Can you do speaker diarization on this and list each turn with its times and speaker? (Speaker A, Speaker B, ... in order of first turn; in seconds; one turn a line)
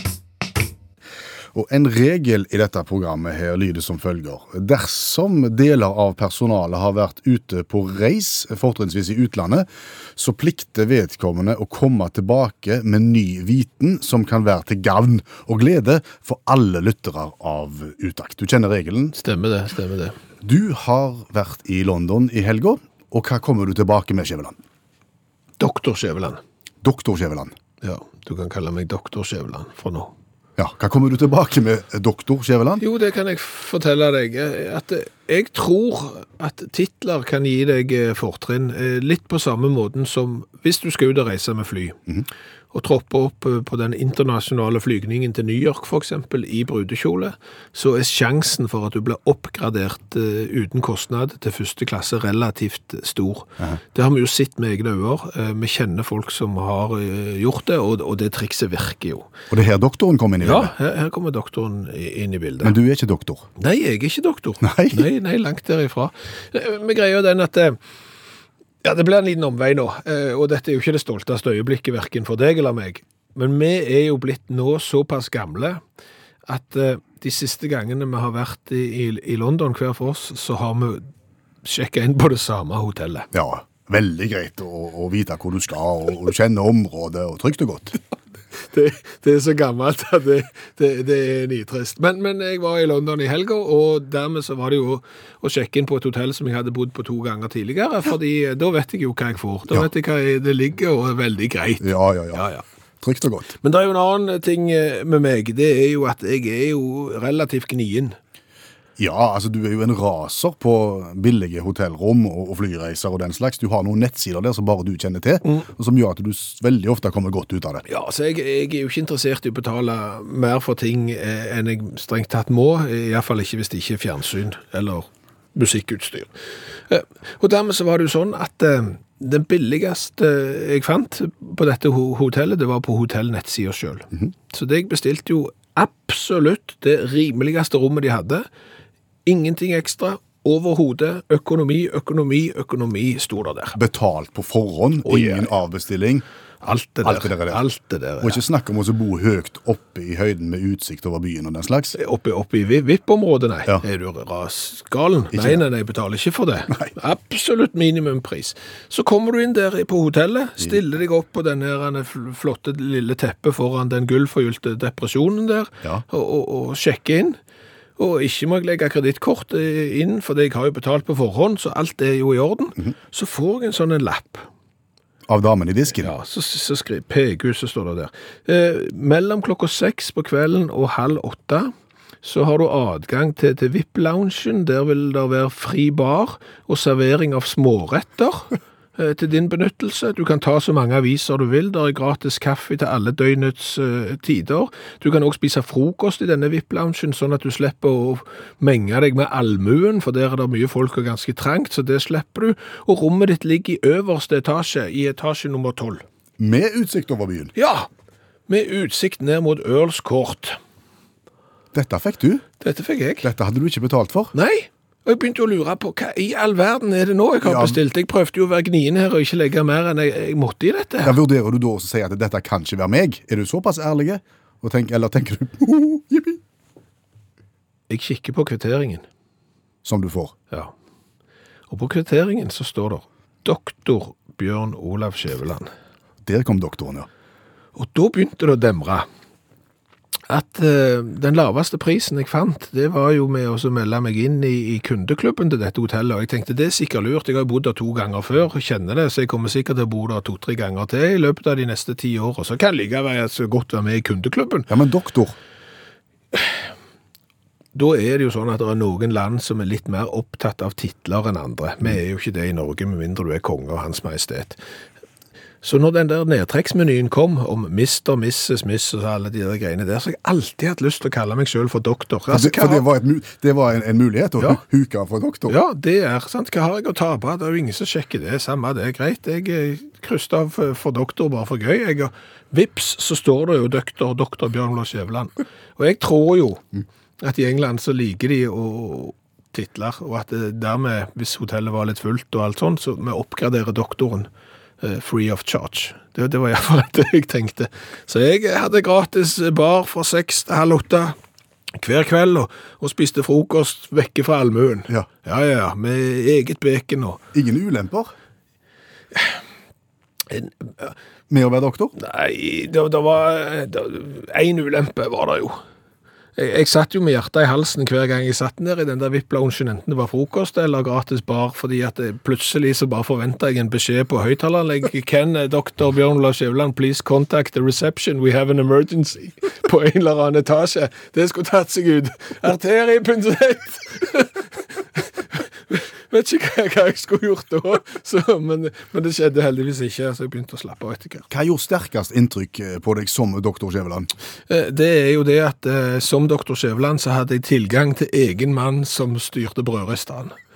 Speaker A: 1.5-19.2
Speaker B: 19.2-20.2
Speaker A: 20.4-24.6
Speaker B: 25.6-26.4
Speaker A: 26.8-27.5
Speaker B: 27.8-30.1
Speaker A: 30.6-32.8
Speaker B: 32.8-42.0
Speaker B: 42.7-59.3
Speaker A: 59.5-60.7
Speaker B: 60.4-62.8
Speaker A: 62.6-63.5
Speaker B: 63.6-67.8
Speaker A: 64.6-65.1
Speaker B: 68.8-75.8
Speaker B: 76.5-81.1
Speaker B: 81.6-83.3
Speaker A: 83.3-88.0
Speaker B: 88.7-102.6
Speaker A: 101.8-102.5
Speaker A: 103.0-103.5
Speaker B: 103.6-108.2
Speaker A: 109.0-117.8
Speaker B: 117.9-126.3
Speaker B: 126.9-138.4
Speaker B: 139.3-143.8
Speaker A: 143.8-146.2
Speaker B: 145.1-145.5
Speaker B: 146.6-148.4
Speaker A: 147.0-147.6
Speaker A: 148.2-152.0
Speaker B: 152.0-167.4
Speaker A: 155.3-155.6
Speaker B: 168.0-174.5
Speaker A: 175.3-176.1
Speaker B: 176.0-181.7
Speaker B: 182.2-206.0
Speaker A: 206.4-207.5
Speaker B: 207.6-207.9
Speaker B: 208.5-210.6
Speaker A: 211.7-212.4
Speaker B: 212.6-213.3
Speaker A: 213.2-214.3
Speaker B: 214.3-221.2
Speaker A: 217.4-217.8
Speaker A: 221.0-226.4
Speaker B: 227.9-229.0
Speaker A: 229.8-230.3
Speaker B: 231.7-235.7
Speaker A: 236.2-237.1
Speaker B: 237.8-239.1
Speaker B: 240.3-254.7
Speaker A: 254.7-255.4
Speaker B: 256.3-256.6
Speaker B: 257.7-264.6
Speaker B: 265.6-272.9
Speaker A: 272.3-275.6
Speaker B: 275.5-286.6
Speaker B: 287.2-294.3
Speaker B: 294.8-301.1
Speaker B: 301.8-307.2
Speaker A: 307.3-308.1
Speaker A: 311.3-311.9
Speaker B: 312.0-315.6
Speaker B: 316.4-341.3
Speaker A: 341.3-344.1
Speaker B: 344.5-350.3